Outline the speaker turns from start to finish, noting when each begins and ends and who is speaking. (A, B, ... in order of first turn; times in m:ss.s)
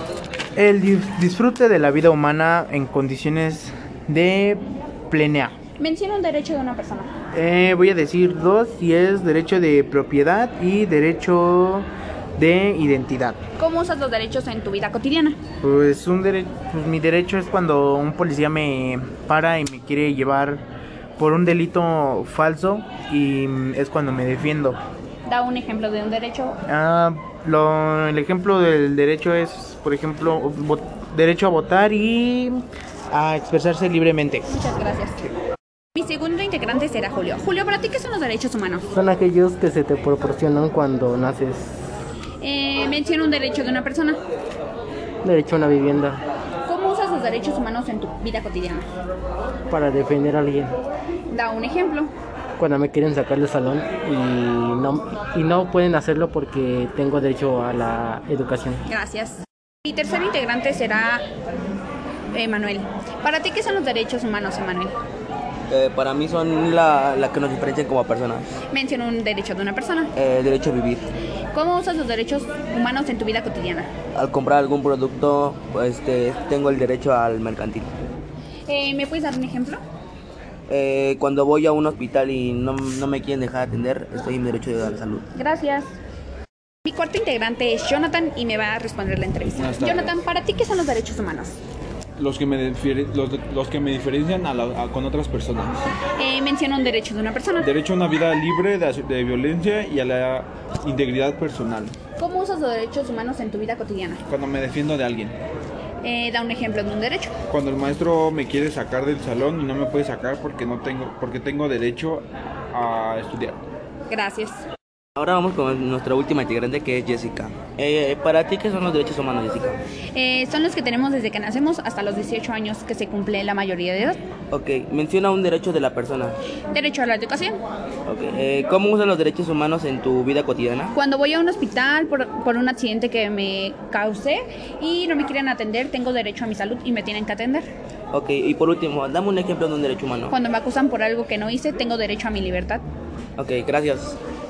0:00.6-0:05.5 A
0:05.8-0:07.1 B
0:07.3-0:11.8 A
0:12.4-0:13.4 A
0:13.6-0:15.4 B
0:15.6-0:20.6 A
0:21.2-0:24.8 A
0:25.3-0:26.6 B
0:26.7-0:34.5 A
0:34.5-0:35.2 B
0:35.9-0:38.9 B
0:38.9-0:41.8 C
0:42.4-0:44.2 B
0:45.2-0:46.2 C
0:46.6-0:48.9 B
0:49.7-0:50.8 C
0:51.3-0:52.1 B
0:52.6-0:58.8 C
0:58.8-1:01.2 B
1:02.3-1:04.9 B
1:05.7-1:08.5 D
1:08.7-1:10.1 B
1:10.2-1:11.1 D
1:11.5-1:13.9 B
1:14.1-1:17.9 D
1:18.7-1:19.8 B
1:20.7-1:25.2 D
1:25.3-1:25.9 B
1:26.8-1:31.6 B
1:29.6-1:30.1 E
1:32.2-1:35.8 E
1:36.2-1:37.7 B
1:37.6-1:41.9 E
1:42.2-1:44.2 B
1:44.3-1:45.3 E
1:46.0-1:47.3 B
1:47.5-1:53.6 E
1:54.1-1:54.6 B
1:55.2-1:59.8 D
2:00.1-2:04.2 B
2:04.5-2:06.4 D
2:06.7-2:07.6 B
2:08.0-2:10.9 D
2:10.9-2:17.7 B
2:18.1-2:20.3 D
2:20.3-2:22.8 B
2:23.4-2:24.2 D